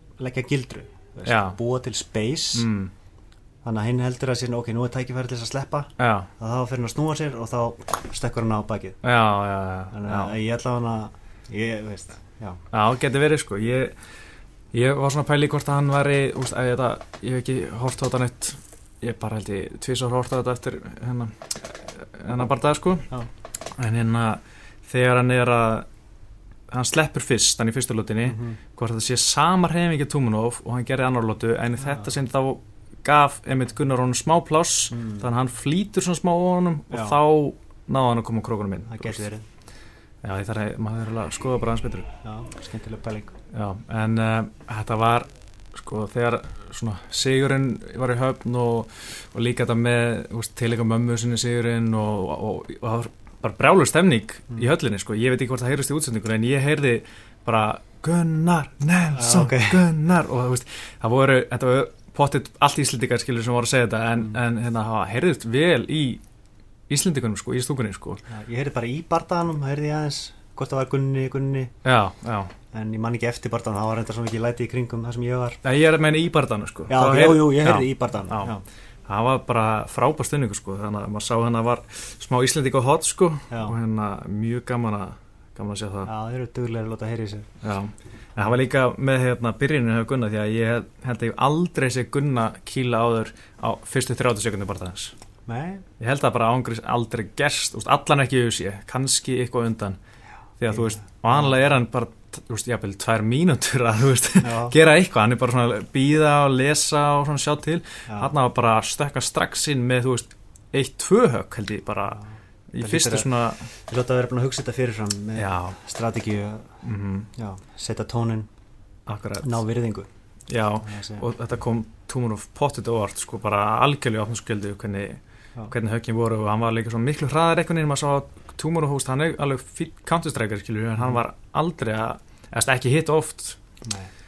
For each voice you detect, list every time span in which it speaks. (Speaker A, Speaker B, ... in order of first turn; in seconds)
Speaker A: 0.2-2.7, 3.6-9.0, 9.9-12.6, 28.2-28.6, 31.8-32.1, 34.9-35.3, 36.9-37.2, 38.9-39.5, 42.2-43.3, 59.1-59.9, 68.3-71.7, 72.7-75.6, 76.9-78.6, 83.5-83.8, 86.0-87.5, 95.5-95.8, 100.7-101.6, 104.4-104.8, 108.1-108.3, 112.8-116.8, 117.3-118.5, 119.4-120.1, 120.8-121.3, 133.8-134.1
Speaker B: 1.2-1.6, 2.5-2.9, 6.0-6.3, 9.0-10.3, 12.7-14.0, 14.7-23.1, 23.7-25.9, 26.7-39.3, 40.2-42.1, 43.5-66.2, 66.9-68.2, 71.8-72.5, 75.6-78.5, 79.1-86.1, 87.6-95.1, 96.0-100.0, 100.6-113.7, 115.4-115.8, 116.8-117.3, 119.1-119.6, 120.5-133.6